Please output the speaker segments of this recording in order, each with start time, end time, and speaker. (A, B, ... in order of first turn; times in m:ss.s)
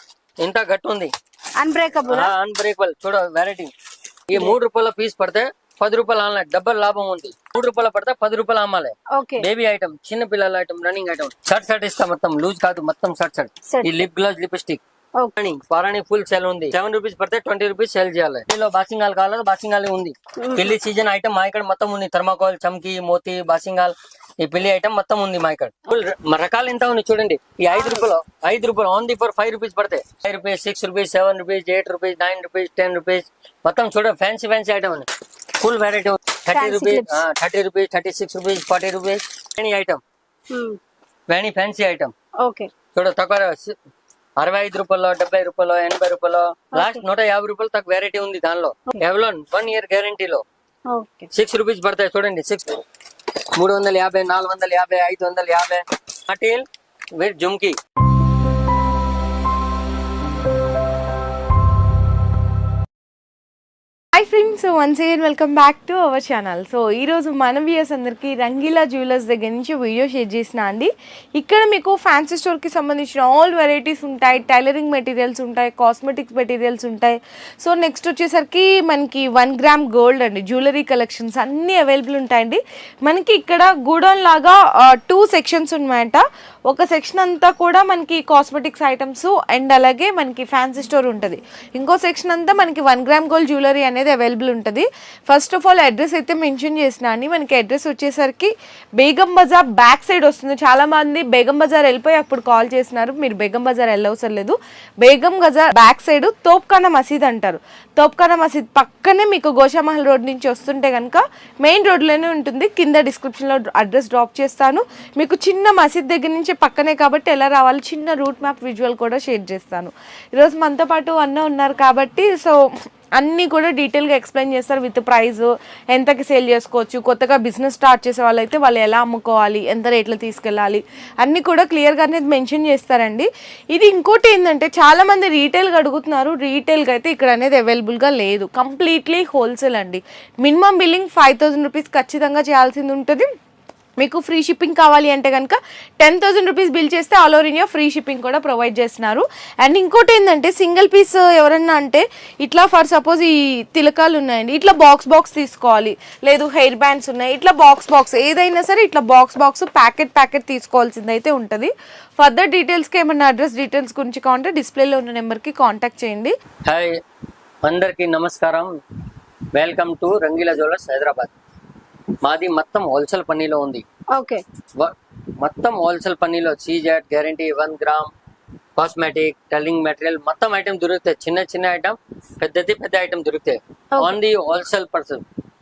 0:00.4-0:01.1 A
0:01.6-0:02.3 B
0:02.0-0:03.7 A
0:04.3-0:14.8 A
0:09.1-0:09.4 B
0:13.7-0:14.0 B
0:15.4-0:40.0 A
0:20.4-0:20.7 B
0:27.7-0:28.0 B
0:36.5-0:37.1 B
0:40.5-0:40.8 B
0:41.3-0:42.1 A
0:42.4-0:42.7 B
0:42.9-0:43.7 A
0:44.4-0:50.4 A
0:46.8-0:47.0 B
0:50.9-0:51.3 B
0:51.3-0:52.6 A
0:53.6-0:56.6 A
0:57.2-0:57.8 A
1:04.1-2:02.6 C
2:03.2-2:23.3 C
2:24.0-2:46.3 C
2:46.7-2:47.0 A
2:47.6-2:48.7 A
2:49.5-2:51.3 A
2:52.2-2:53.8 A
2:54.1-2:54.4 B
2:54.8-2:58.1 A
2:58.8-3:05.2 A